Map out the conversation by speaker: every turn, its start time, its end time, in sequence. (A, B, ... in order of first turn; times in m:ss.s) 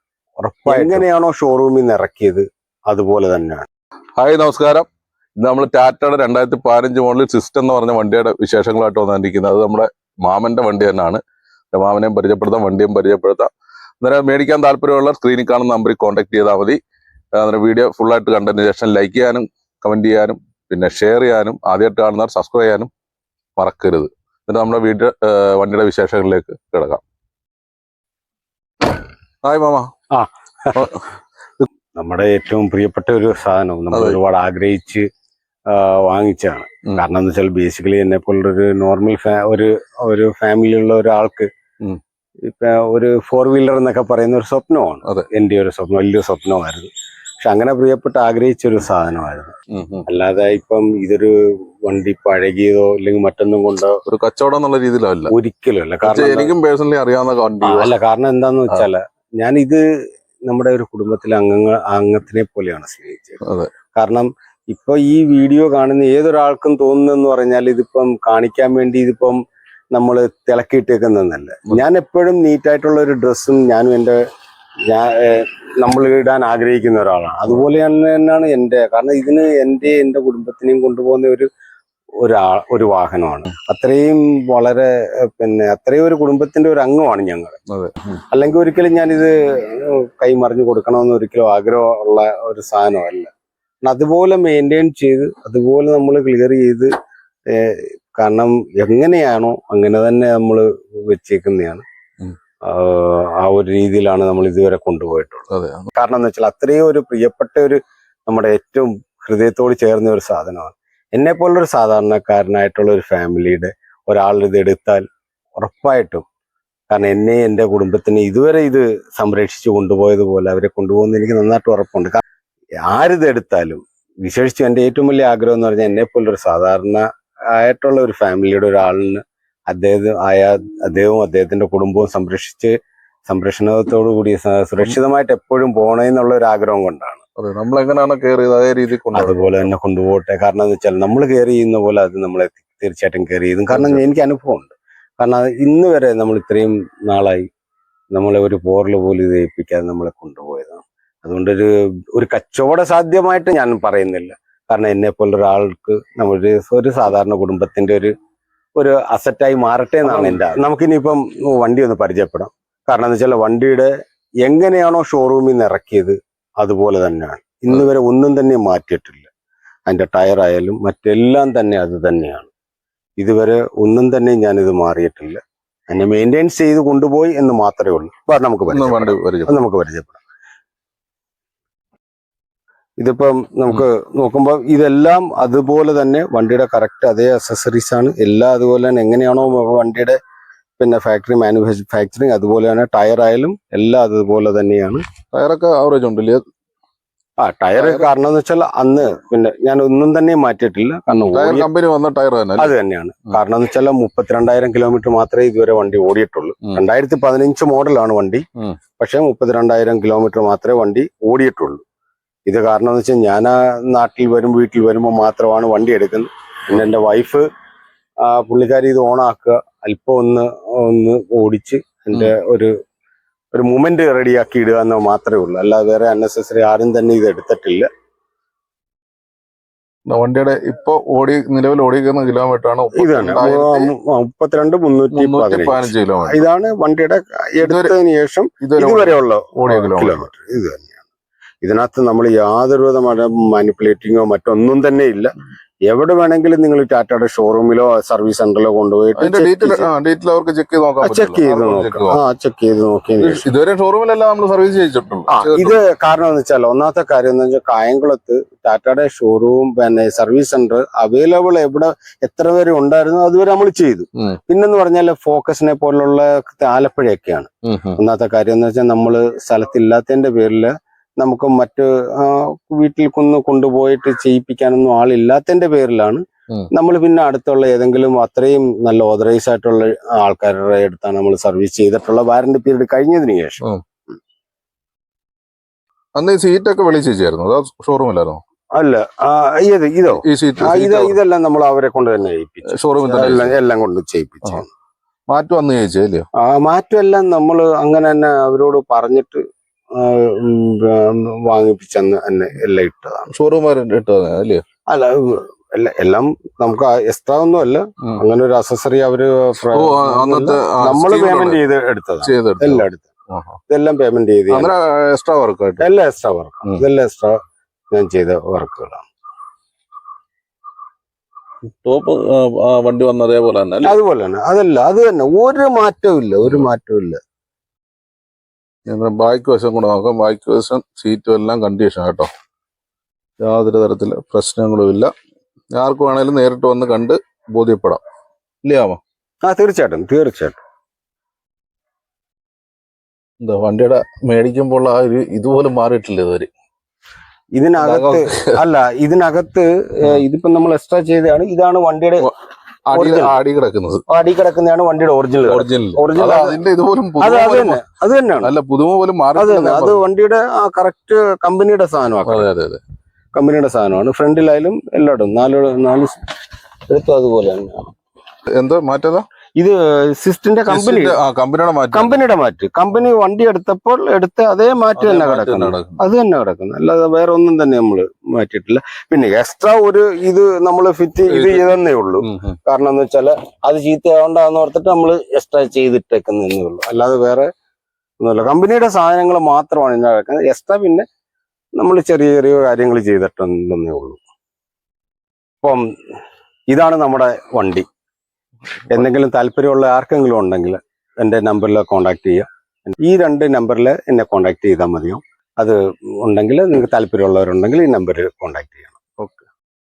0:00.4-0:03.7 A
0:00.7-0:01.0 B
0:04.2-0:11.2 B
0:11.7-0:13.5 B
0:14.0-0:16.8 B
0:17.4-0:22.9 B
0:23.6-0:27.0 B
0:29.4-0:29.9 B
0:30.1-0:30.8 A
0:30.8-0:31.0 B
0:32.0-0:35.1 A
0:33.9-0:34.2 B
0:35.7-0:41.5 A
0:42.4-0:46.9 A
0:47.4-0:49.6 A
0:49.7-0:50.1 B
0:50.1-0:51.3 A
0:51.8-0:54.0 A
0:54.1-0:55.3 B
0:55.3-0:56.5 A
0:56.0-0:57.9 B
0:57.6-0:59.8 A
1:00.5-1:03.4 A
1:03.4-1:03.7 B
1:03.9-1:09.4 A
1:09.9-1:14.2 A
1:14.9-1:21.5 A
1:22.2-1:27.6 A
1:27.7-1:28.0 B
1:28.3-1:33.3 A
1:33.8-1:36.9 A
1:37.5-1:41.8 A
1:42.6-1:55.0 A
1:45.5-1:45.9 B
1:55.6-1:56.2 A
1:56.9-2:02.2 A
2:02.9-2:12.7 A
2:13.3-2:17.2 A
2:17.4-2:19.4 B
2:19.1-2:27.5 A
2:23.7-2:24.0 B
2:28.1-2:38.1 A
2:38.8-2:43.9 A
2:40.0-2:40.5 B
2:44.4-2:49.3 A
2:49.9-2:52.5 A
2:53.2-3:00.2 A
2:58.7-2:59.5 B
3:03.0-3:10.2 A
3:10.8-3:15.0 A
3:15.3-3:16.4 B
3:17.4-3:21.7 A
3:17.8-3:18.1 B
3:21.1-3:22.7 B
3:22.6-3:28.4 A
3:29.0-3:31.8 A
3:32.5-3:37.4 A
3:38.2-3:42.7 A
3:43.5-3:47.9 A
3:50.1-3:53.9 B
3:53.0-4:01.0 A
3:55.1-3:56.4 B
3:57.6-3:57.9 B
3:58.6-4:00.3 B
4:01.6-4:05.3 A
4:05.9-4:09.9 A
4:09.2-4:12.2 B
4:11.0-4:13.4 A
4:13.2-4:15.8 B
4:15.3-4:36.2 A
4:27.7-4:28.0 B
4:36.7-4:43.6 A
4:46.2-4:48.4 B
4:48.8-4:54.7 A
4:50.2-4:51.2 B
4:52.7-4:53.5 B
4:55.3-4:56.3 B
4:56.4-4:59.4 A
5:00.0-5:03.3 A
5:03.3-5:04.6 B
5:04.9-5:13.0 A
5:09.6-5:11.6 B
5:12.2-5:13.6 B
5:13.7-5:14.7 A
5:14.5-5:15.9 B
5:15.8-5:17.4 A
5:17.9-5:19.0 A
5:21.7-5:24.0 B
5:23.8-5:27.2 A
5:28.9-5:32.3 B
5:33.4-5:35.1 B
5:35.7-5:38.0 B
5:38.6-5:39.0 B
5:39.4-5:40.6 A
5:43.4-5:46.5 B
5:47.6-5:52.3 A
5:47.8-5:48.6 B
5:52.9-5:54.0 B
5:52.9-5:53.4 A
5:54.1-5:56.6 A
5:55.5-5:57.8 B
5:57.2-5:58.5 A
5:58.4-6:00.0 B
5:59.4-6:02.5 A
6:02.2-6:02.8 B
6:03.3-6:06.2 A
6:06.9-6:07.9 A
6:08.6-6:09.3 B
6:09.6-6:11.2 A
6:10.7-6:12.2 B
6:11.9-6:27.5 A
6:15.0-6:16.0 B
6:21.3-6:22.6 B
6:28.2-6:31.0 A
6:31.8-6:34.2 A
6:36.7-6:37.9 A
6:38.9-6:49.0 A